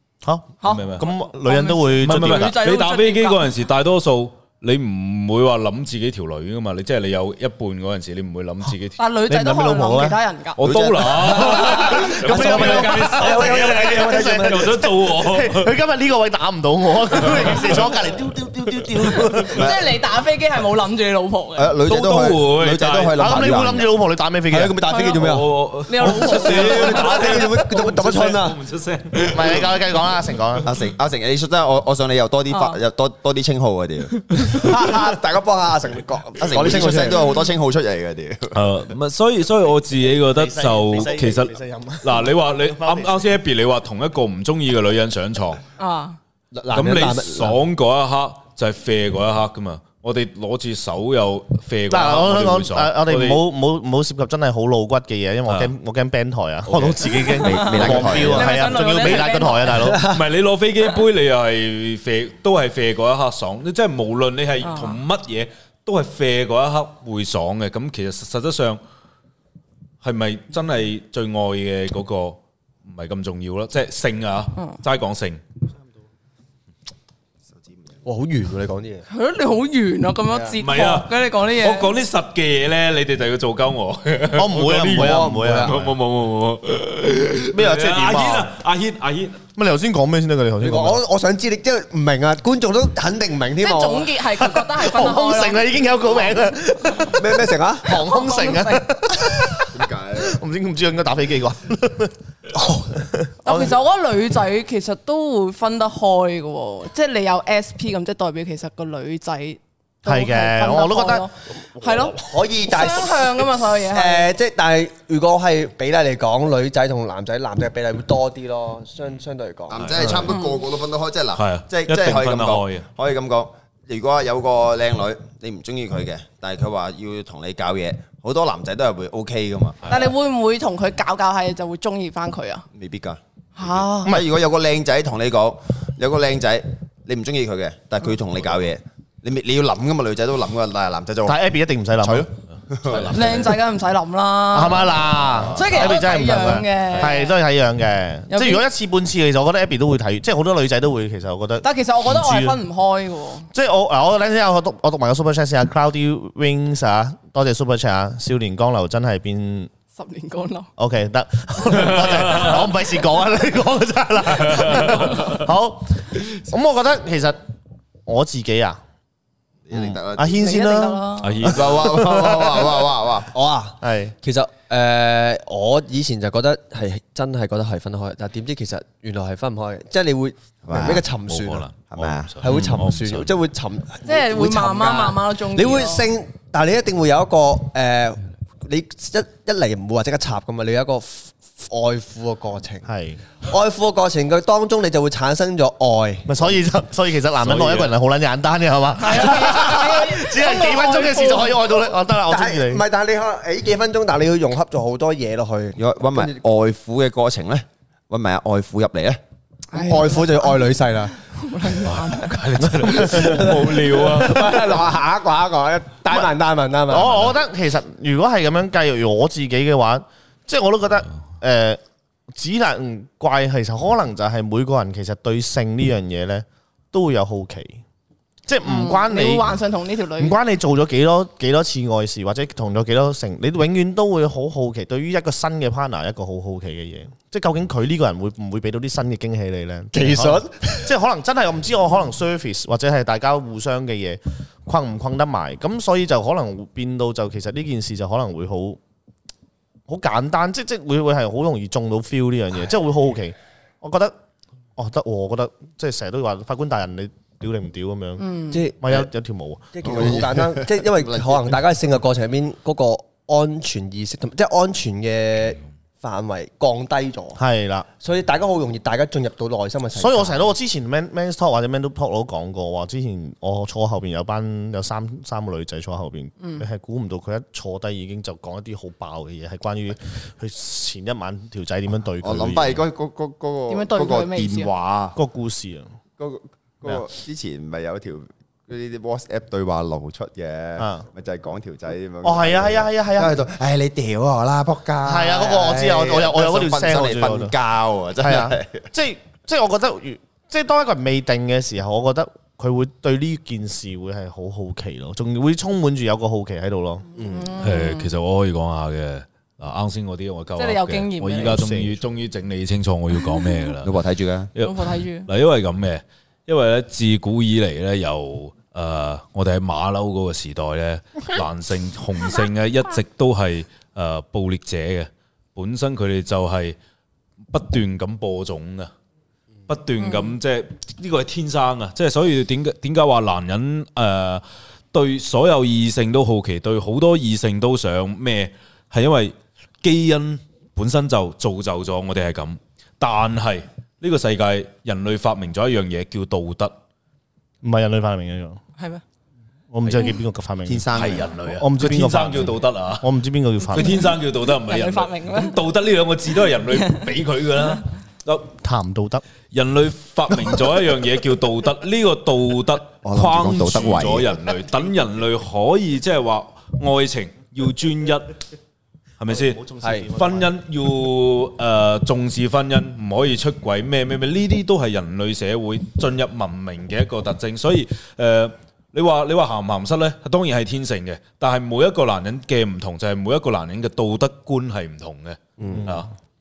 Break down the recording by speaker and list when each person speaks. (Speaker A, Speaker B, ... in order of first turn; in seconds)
Speaker A: 0.2-2.5, 9.3-10.2, 12.3-19.7, 23.2-24.8, 29.3-30.7, 40.3-43.2, 51.9-60.0, 84.3-85.8, 87.5-88.5, 89.6-91.0, 94.7-97.2, 97.8-102.1, 103.1-103.7, 110.0-111.3, 141.3-142.3, 144.5-152.5, 153.5-159.7, 160.8-167.4, 168.1-168.8, 169.7-171.0, 171.8-172.6, 173.8-174.2, 192.9-193.2, 196.3-202.8, 216.9-221.8, 222.3-227.8, 228.5-229.6, 230.2-248.8, 249.9-254.1, 254.8-259.7, 267.4-267.9, 269.9-282.8, 285.1-285.9, 290.8-291.0, 292.2-293.3, 295.1-297.5, 298.2-307.1, 311.4-312.0, 347.6-348.6, 349.7-350.9, 351.6-354.0, 358.6-359.2, 369.3-370.5
Speaker B: 0.6-3.5, 9.0-10.6, 19.5-21.8, 24.9-25.3, 25.9-27.2, 32.5-32.8, 45.8-46.2, 57.6-59.9, 64.6-65.0, 79.1-81.9, 93.6-95.7, 98.0-98.8, 103.4-114.3, 120.3-120.6, 129.9-132.6, 133.6-134.2, 143.1-145.0, 145.5-147.4, 148.3-148.7, 151.6-153.5, 159.9-160.7, 170.4-171.4, 184.1-186.1, 199.0-201.8, 209.7-210.6, 211.3-212.4, 228.6-230.4, 258.2-258.6, 276.4-276.6, 283.7-284.7, 307.2-308.1, 310.6-311.6, 314.6-315.3, 330.0-330.3, 353.8-354.0, 354.6-355.6, 356.7-357.1
Speaker C: 0.7-1.0, 2.0-9.0, 10.6-15.7, 17.2-17.8, 21.9-23.5, 25.2-30.0, 38.5-45.6, 46.7-53.4, 56.7-57.0, 60.0-68.8, 70.0-75.4, 80.6-89.4, 119.8-120.3, 121.4-122.9, 142.9-143.4, 162.2-162.6, 164.5-165.3, 171.2-172.0, 181.3-183.3, 197.4-197.9, 211.9-214.7, 307.6-313.9, 314.6-326.8, 327.5-328.9, 329.7-346.7, 350.9-353.1, 353.7-358.5, 359.5-368.4, 369.2-386.1
Speaker D: 10.6-12.0, 19.6-20.0, 21.6-23.9, 30.6-34.1, 36.4-38.6, 57.4-58.6, 77.6-77.9, 99.7-100.4, 119.7-130.1, 132.7-141.4, 142.0-143.6, 169.7-170.4, 171.4-173.3, 180.7-181.0, 181.9-182.7, 205.8-209.2, 259.8-261.5, 282.2-285.2, 286.2-298.9, 313.8-314.5, 350.7-351.4, 363.0-364.3
Speaker E: 11.5-14.8, 24.5-28.6, 34.6-37.2, 46.5-47.6, 59.8-60.2, 78.0-79.0, 80.3-80.6, 84.8-85.9, 90.6-94.2, 97.1-97.9, 102.5-102.8, 112.2-113.3, 113.9-120.1, 173.3-181.7, 182.4-192.9, 193.4-196.6, 202.3-206.4, 209.7-211.1, 213.0-217.3, 239.9-240.9, 258.5-259.1, 259.7-267.4, 268.0-270.5, 369.8-370.1